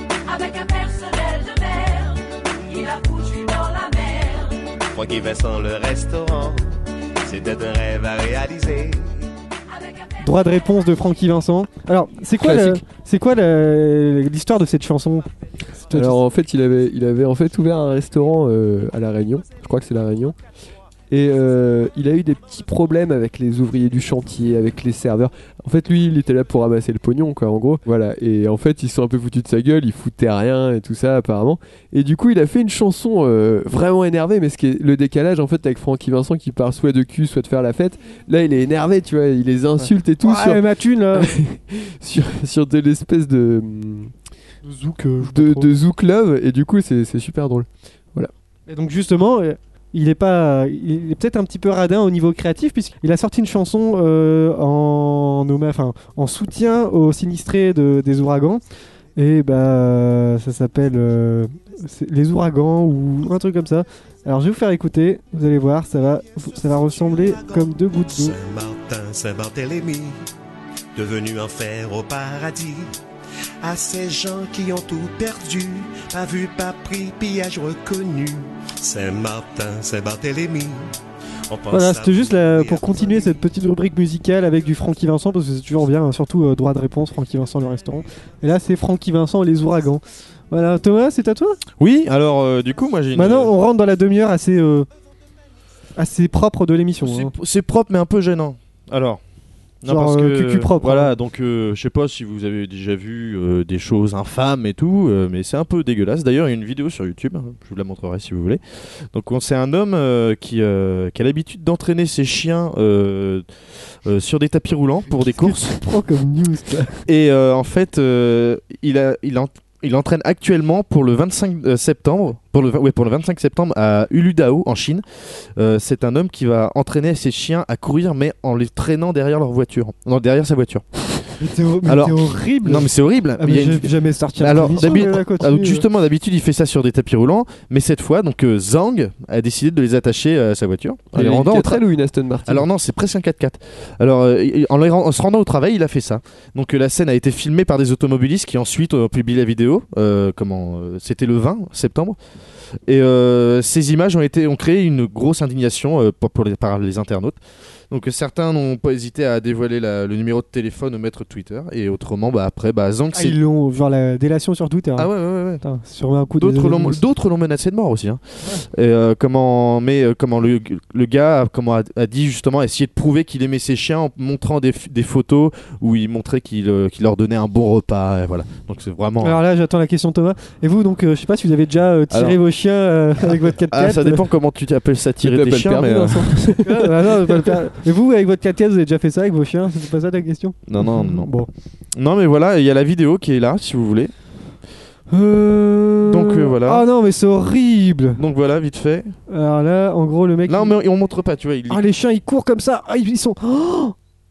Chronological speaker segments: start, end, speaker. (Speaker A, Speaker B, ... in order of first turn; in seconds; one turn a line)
Speaker A: 0.3-4.5
Speaker B: 4.9-6.7
Speaker B: 7.2-9.3
Speaker C: 10.2-16.2
Speaker D: 12.4-12.8
Speaker D: 15.9-20.4
Speaker D: 21.1-44.1
Speaker C: 39.8-41.4
Speaker C: 44.6-45.7
Speaker D: 45.2-48.3
Speaker C: 48.7-58.6
Speaker C: 59.1-68.4
Speaker B: 66.8-70.2
Speaker B: 70.9-72.9
Speaker B: 73.6-80.9
Speaker B: 81.5-83.4
Speaker C: 81.7-91.6
Speaker E: 91.8-93.5
Speaker C: 93.1-94.9
Speaker C: 96.0-97.3
Speaker E: 97.0-99.2
Speaker E: 99.8-115.8
Speaker C: 99.9-101.1
Speaker C: 115.2-117.0
Speaker E: 117.0-131.3
Speaker C: 131.4-135.8
Speaker E: 131.8-141.8
Speaker D: 141.1-142.7
Speaker E: 142.4-152.2
Speaker E: 152.9-157.4
Speaker E: 157.9-163.4
Speaker C: 163.1-167.0
Speaker E: 164.9-165.6
Speaker E: 166.3-179.4
Speaker C: 179.2-184.2
Speaker E: 182.1-182.4
Speaker E: 183.2-186.5
Speaker D: 185.2-187.6
Speaker C: 186.6-191.5
Speaker E: 190.7-191.3
Speaker E: 191.9-194.1
Speaker C: 195.1-198.2
Speaker E: 196.1-196.8
Speaker E: 198.2-199.2
Speaker C: 199.3-200.8
Speaker E: 200.4-201.8
Speaker C: 201.7-203.9